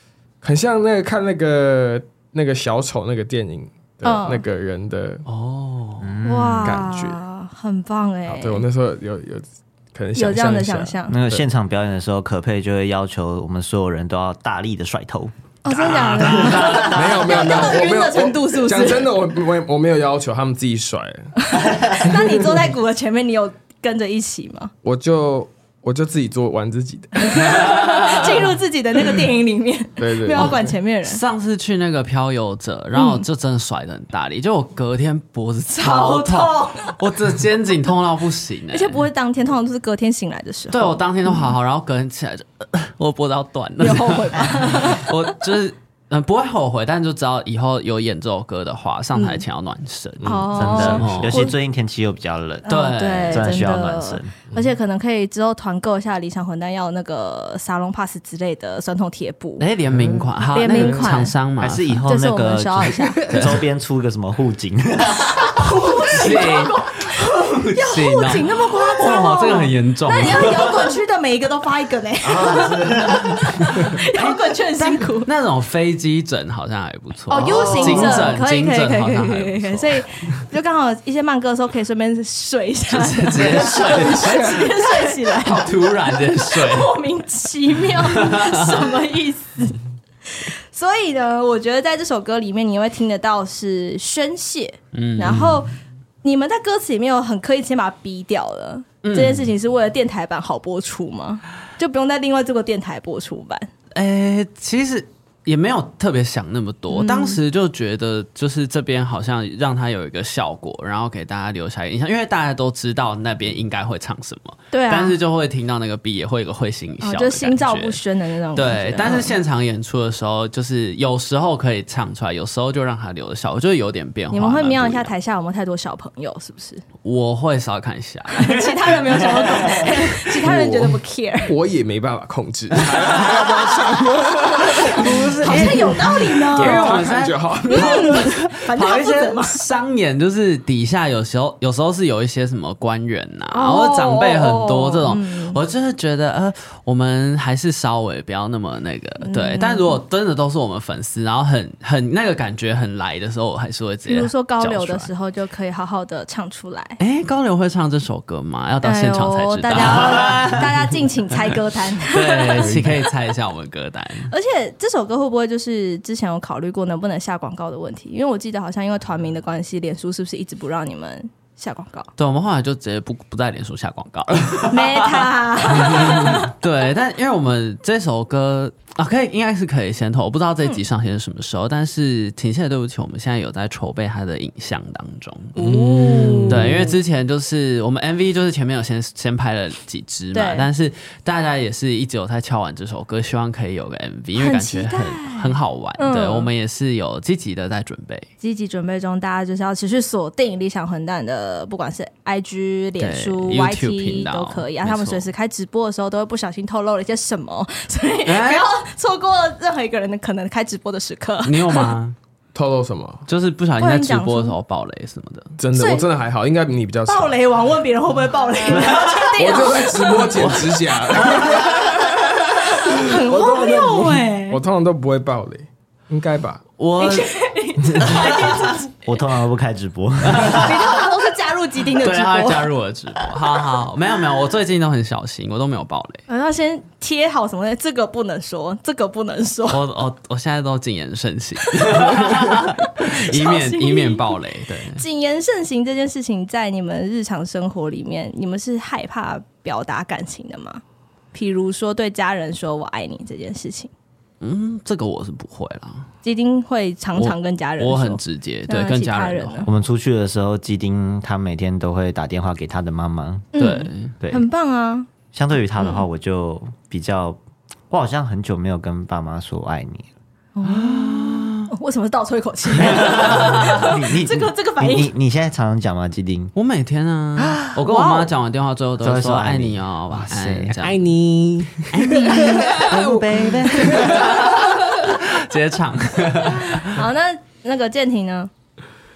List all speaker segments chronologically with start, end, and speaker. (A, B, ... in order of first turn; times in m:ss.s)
0:00.4-0:05.2 A
0:04.0-0:04.4 B
0:05.3-0:06.1 C
0:06.0-0:06.8 D
0:06.2-0:08.6 B
0:06.6-0:07.2 A
0:08.3-0:11.4 A
0:10.2-0:11.1 B
0:11.1-0:15.3 D
0:15.6-0:19.1 B
0:15.9-0:17.3 C
0:16.2-0:16.9 D
0:16.3-0:21.4 A
0:21.4-0:24.7 B
0:24.8-0:27.8 A
0:27.2-0:31.2 B
0:27.8-0:28.3 C
0:30.0-0:30.7 A
0:30.4-0:39.1 C
0:32.9-0:33.3 B
0:35.8-0:37.0 B
0:38.7-0:41.6 B
0:40.7-0:51.4 C
0:43.8-0:45.4 B
0:49.2-0:49.4 B
0:50.2-0:51.1 A
0:50.2-0:51.6 B
0:50.6-0:54.3 D
0:52.6-0:59.6 B
0:52.7-0:53.6 C
0:59.6-1:02.0 C
0:59.9-1:00.3 A
1:00.5-1:01.3 B
1:01.6-1:06.4 D
1:02.1-1:03.4 B
1:03.3-1:03.6 C
1:05.4-1:15.3 B
1:06.1-1:10.9 C
1:12.2-1:13.6 D
1:14.1-1:20.0 C
1:17.3-1:43.7 B
1:17.5-1:18.3 A
1:17.6-1:18.1 D
1:22.9-1:27.0 C
1:23.4-1:24.8 A
1:28.0-1:28.9 C
1:34.9-1:35.7 C
1:39.0-1:39.5 C
1:43.9-1:58.0 C
1:46.9-1:47.4 B
1:54.7-1:55.2 B
1:57.0-1:59.4 B
1:58.6-2:05.1 C
2:04.3-2:06.8 B
2:07.0-2:10.2 C
2:08.3-2:11.5 B
2:10.4-2:18.2 A
2:13.1-2:13.7 B
2:14.3-2:17.0 B
2:14.8-2:35.1 C
2:17.7-2:19.6 B
2:23.5-2:25.6 B
2:29.2-2:30.0 B
2:34.1-2:37.0 B
2:37.0-2:40.7 C
2:38.8-2:43.0 B
2:42.0-2:44.3 C
2:44.3-2:52.1 B
2:52.2-3:18.3 C
2:54.7-2:56.5 B
3:05.6-3:07.0 A
3:06.0-3:06.4 B
3:10.3-3:10.7 B
3:14.4-3:16.5 B
3:18.4-3:32.0 B
3:23.0-3:25.3 C
3:28.3-3:28.7 C
3:31.4-3:32.2 C
3:32.5-3:33.3 A
3:33.3-3:35.6 C
3:33.8-3:34.6 B
3:35.6-3:37.3 A
3:35.7-3:36.1 B
3:37.1-3:40.5 B
3:38.8-3:39.3 C
3:39.4-3:46.6 A
3:40.3-3:41.4 C
3:41.2-3:44.6 B
3:46.8-3:47.3 C
3:47.0-3:49.2 B
3:48.0-3:48.8 C
3:49.0-3:50.9 D
3:50.2-3:50.8 C
3:50.4-3:52.7 B
3:51.9-3:56.2 C
3:56.3-3:59.8 B
3:59.7-4:05.0 C
4:01.8-4:04.4 B
4:04.9-4:10.8 B
4:11.3-4:13.9 B
4:14.4-4:16.1 C
4:16.2-4:19.7 B
4:17.2-4:19.7 C
4:19.7-4:23.5 D
4:23.6-4:25.1 B
4:23.6-4:24.2 C
4:24.2-4:24.5 D
4:25.3-4:27.4 D
4:25.8-4:26.0 B
4:27.9-4:30.1 D
4:30.6-4:35.1 B
4:30.7-4:31.7 C
4:32.8-4:36.5 D
4:32.9-4:33.9 C
4:36.6-4:41.1 C
4:39.0-4:40.8 D
4:40.8-4:44.4 A
4:41.8-4:47.0 C
4:42.3-4:42.9 B
4:42.8-4:43.8 D
4:43.6-4:45.1 B
4:46.5-4:48.5 B